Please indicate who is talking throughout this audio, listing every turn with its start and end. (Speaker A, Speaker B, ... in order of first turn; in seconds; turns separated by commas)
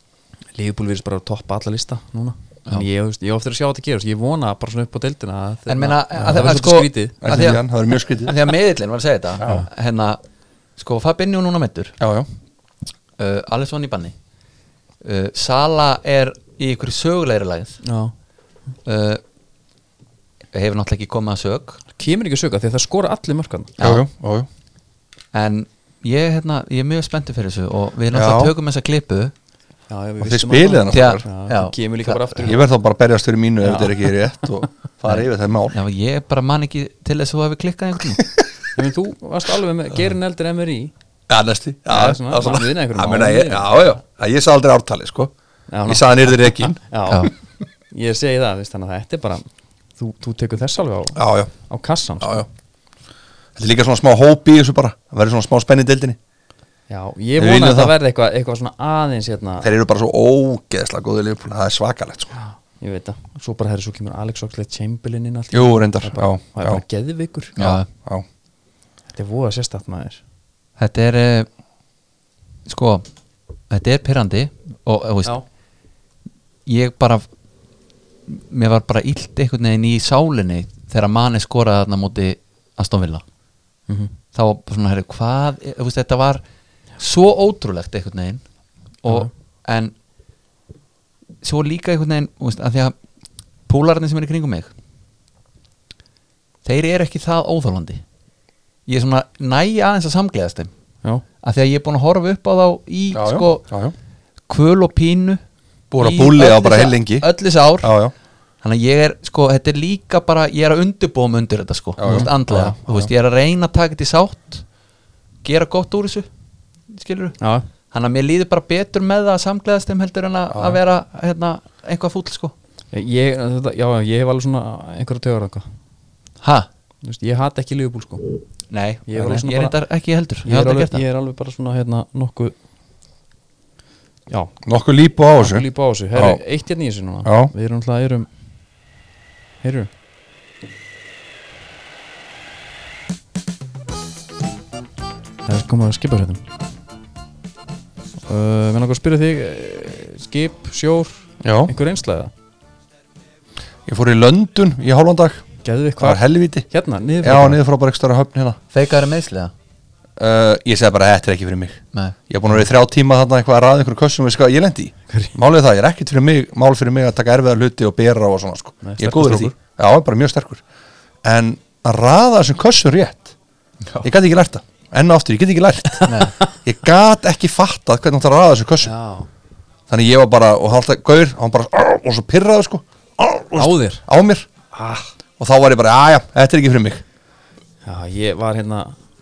Speaker A: 0.5-7.2, Speaker B: 5.7-10.2, Speaker C: 7.2-8.4, Speaker C: 9.4-9.7, Speaker B: 10.8-11.9, Speaker C: 12.0-12.3, Speaker B: 13.2-14.1, Speaker B: 15.0-17.8, Speaker A: 17.8-18.1, Speaker B: 18.9-19.2, Speaker B: 20.5-21.8, Speaker A: 21.9-23.7, Speaker C: 23.8-24.5, Speaker B: 25.3-29.3, Speaker C: 28.1-28.5, Speaker A: 29.9-32.6, Speaker C: 30.2-31.2, Speaker B: 30.9-32.4, Speaker C: 32.4-35.8, Speaker A: 33.6-34.1, Speaker B: 35.1-38.2, Speaker A: 38.7-40.9, Speaker C: 41.3-45.3, Speaker A: 41.9-44.0, Speaker A: 45.7-47.3, Speaker C: 45.9-46.8, Speaker A: 47.9-49.5, Speaker A: 50.0-52.4, Speaker C: 51.1-51.5, Speaker C: 52.2-52.5, Speaker C: 53.5-56.2, Speaker A: 56.9-59.7, Speaker C: 57.4-57.9, Speaker C: 59.6-62.4, Speaker A: 62.4-67.5, Speaker C: 65.5-66.8, Speaker B: 67.6-67.9, Speaker C: 67.6-68.2, Speaker A: 69.1-70.2, Speaker B: 70.8-71.5, Speaker B: 72.7-73.0, Speaker B: 73.7-75.3, Speaker B: 76.7-77.2, Speaker B: 78.3-83.2, Speaker A: 83.9-84.1, Speaker B: 84.3-86.4, Speaker B: 87.0-88.4, Speaker B: 89.0-89.9, Speaker B: 91.4-92.9, Speaker B: 93.7-94.7, Speaker B: 96.6-98.0, Speaker B: 98.9-100.7, Speaker B: 101.4-103.6, Speaker C: 103.1-103.9, Speaker B: 104.5-105.4, Speaker C: 105.9-107.3, Speaker B: 106.0-107.9, Speaker C: 107.8-108.1, Speaker B: 108.6-114.6, Speaker C: 112.0-113.1, Speaker B: 115.4-116.3, Speaker B: 116.9-117.4, Speaker A: 117.4-117.7, Speaker B: 117.9-122.5, Speaker C: 120.5-120.8, Speaker A: 122.9-125.7, Speaker B: 126.4-126.7, Speaker A: 127.0-128.3, Speaker B: 128.7-131.0, Speaker A: 129.1-129.8, Speaker A: 130.4-132.5, Speaker C: 134.6-136.4, Speaker A: 135.4-138.3, Speaker C: 137.2-137.5, Speaker A: 139.6-139.9, Speaker A: 145.4-146.4, Speaker A: 148.2-152.3, Speaker C: 151.4-151.7, Speaker C: 153.9-155.4, Speaker A: 155.6-157.6, Speaker C: 156.0-156.7, Speaker C: 157.2-158.6, Speaker B: 158.7-159.5, Speaker C: 160.2-170.6, Speaker A: 165.1-165.3, Speaker A: 168.8-169.5, Speaker C: 171.2-173.3, Speaker C: 174.0-178.9, Speaker B: 176.1-176.3, Speaker A: 178.8-179.3, Speaker C: 179.9-184.5, Speaker A: 183.6-184.0, Speaker A: 184.7-185.1, Speaker C: 185.4-187.0, Speaker A: 187.8-189.0